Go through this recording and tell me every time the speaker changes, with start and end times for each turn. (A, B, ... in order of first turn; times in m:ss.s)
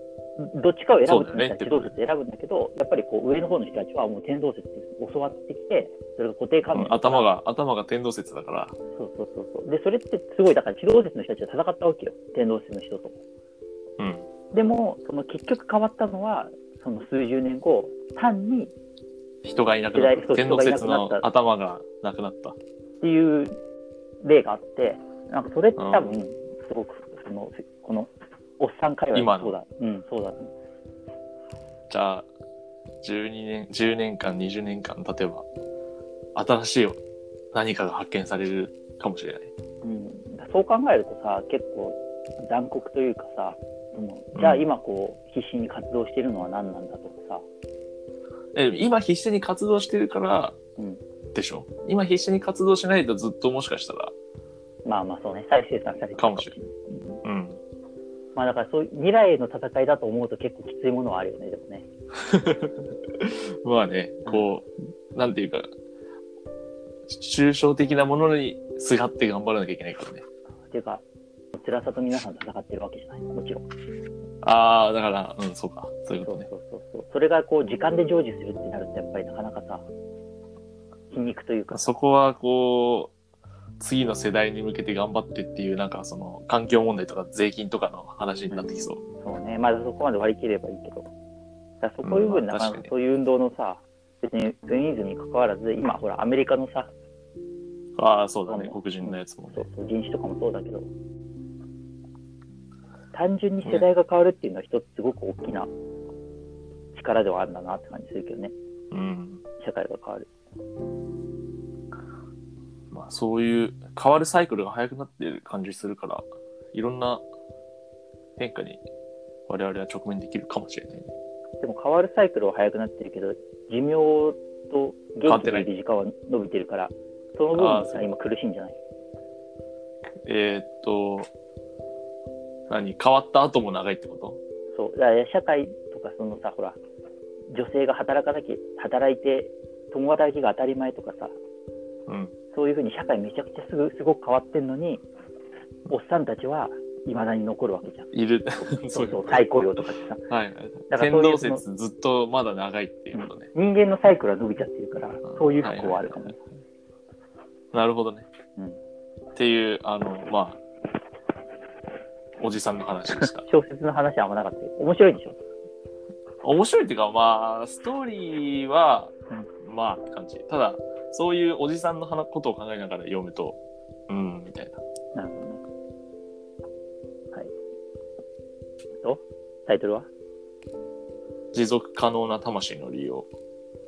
0:00.4-0:07.3 A
0:01.0-0:01.9 B
0:06.7-0:08.8 B
0:09.0-0:13.2 A
0:14.0-0:14.2 B
0:14.5-0:18.7 A
0:19.4-0:22.6 B
0:19.9-0:21.2 A
0:23.0-0:23.5 A
0:24.2-0:30.5 A
0:25.8-0:26.1 B
0:29.1-0:29.6 B
0:31.9-0:32.3 B
0:33.0-0:35.4 B
0:36.3-0:37.0 B
0:37.5-0:39.5 B
0:39.8-0:47.4 A
0:44.3-0:44.6 B
0:48.5-0:50.6 B
0:51.3-0:54.1 B
0:54.8-0:57.2 A
0:56.2-0:56.5 B
0:57.2-0:57.6 B
0:58.3-1:01.8 A
1:02.2-1:05.7 B
1:07.1-1:10.2 B
1:10.7-1:13.6 A
1:14.4-1:16.5 B
1:16.2-1:19.8 A
1:21.1-1:21.9 A
1:21.7-1:23.1 B
1:23.8-1:29.0 B
1:28.5-1:31.1 A
1:31.8-1:36.9 A
1:32.0-1:32.9 B
1:38.0-1:39.7 B
1:38.5-1:40.9 A
1:43.1-1:45.7 A
1:46.9-1:48.5 A
1:48.9-1:49.4 B
1:49.6-1:50.3 A
1:52.9-1:57.2 B
1:58.4-1:58.8 B
1:59.5-2:01.1 B
2:01.6-2:08.8 A
2:05.2-2:05.7 B
2:07.6-2:08.1 B
2:10.2-2:11.3 B
2:12.7-2:14.4 B
2:14.7-2:16.8 A
2:17.5-2:21.3 A
2:22.1-2:22.3 B
2:22.5-2:25.0 A
2:25.9-2:28.1 A
2:28.1-2:29.4 B
2:28.9-2:30.2 A
2:30.3-2:33.5 B
2:30.9-2:31.6 A
2:33.1-2:36.4 A
2:35.3-2:36.2 B
2:37.7-2:38.3 B
2:39.4-2:40.6 B
2:42.4-2:43.4 B
2:43.2-2:45.4 A
2:46.4-2:49.1 B
2:49.6-2:54.8 B
2:55.1-2:55.6 A
2:59.0-3:00.1 A
3:01.5-3:03.3 B